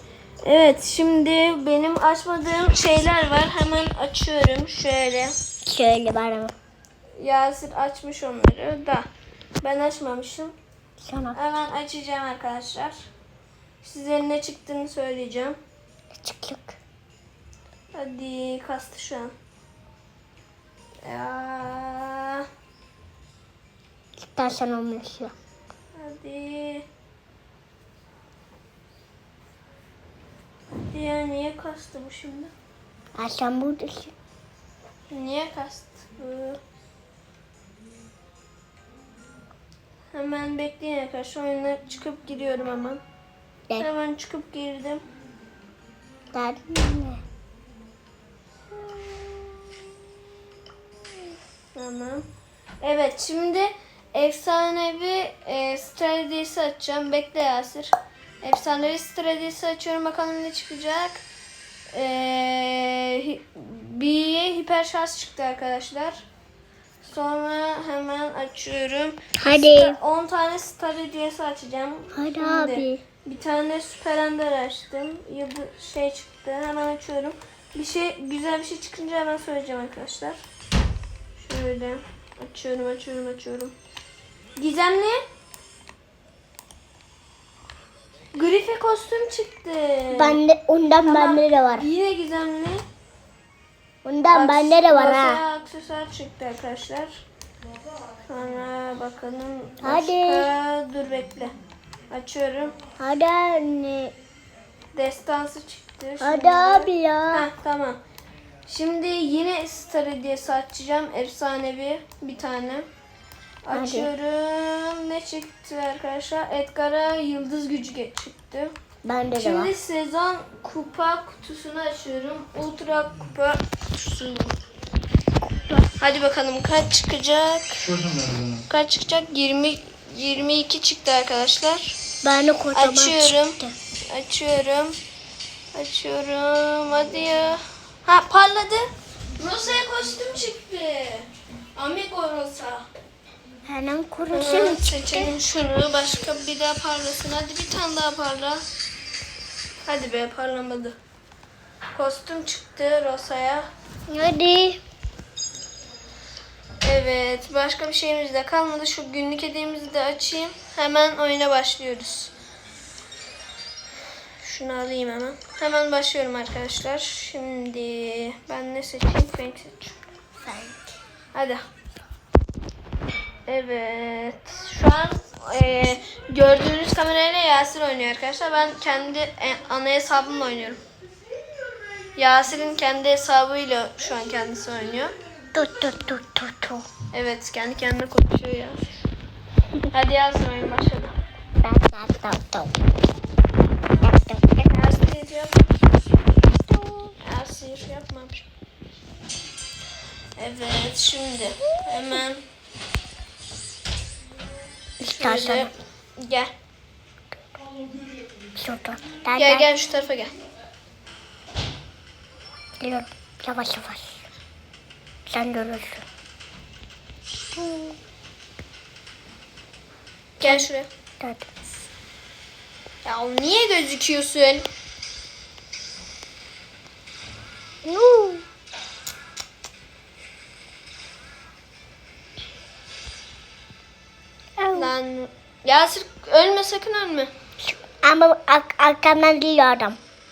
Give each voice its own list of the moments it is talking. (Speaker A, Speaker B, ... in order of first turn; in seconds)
Speaker A: 0.4-5.3, 7.2-9.1, 9.6-10.5, 11.3-13.0, 13.8-15.6, 17.9-19.3, 21.0-22.5, 25.9-26.9, 30.9-32.5, 35.1-36.6, 40.1-43.0, 43.8-45.0, 51.8-52.2, 52.8-61.2, 61.9-66.2, 67.0-80.4, 81.4-83.7, 84.6-85.2, 88.3-90.4, 91.0-92.8, 94.3-97.1, 98.3-101.5, 102.1-102.8, 104.9-108.0, 108.7-112.9, 113.7-118.7, 119.4-124.5, 126.0-128.0, 128.7-132.0, 132.8-133.6, 134.1-135.0, 135.7-142.8, 144.3-148.7, 149.9-150.9, 151.9-153.7, 156.8-162.3, 164.4-170.0, 171.3-171.6, 173.5-180.8, 182.2-185.1, 187.1-189.0, 189.9-191.1, 194.7-195.7, 197.2-198.5, 200.4-202.4, 205.1-206.5, 209.4-210.3, 220.4-220.9, 223.0-224.7, 234.7-237.3
Speaker B: 5.7-6.5, 11.0-11.4, 16.1-16.8, 24.2-25.3, 33.2-34.1, 46.3-47.2, 69.4-70.0, 72.1-73.0, 90.1-91.9, 94.0-95.4, 99.8-100.5, 103.0-104.2, 106.2-107.5, 113.7-114.1, 119.0-119.7, 132.2-133.7, 143.6-145.3, 154.1-154.8, 170.4-170.9, 185.5-186.8, 191.6-192.7, 194.0-194.7, 196.8-197.1, 205.0-205.7, 208.6-209.7, 212.8-214.2, 215.3-216.1, 217.5-218.0, 220.4-220.7, 221.2-221.5, 227.8-228.4, 234.6-234.9, 237.6-240.0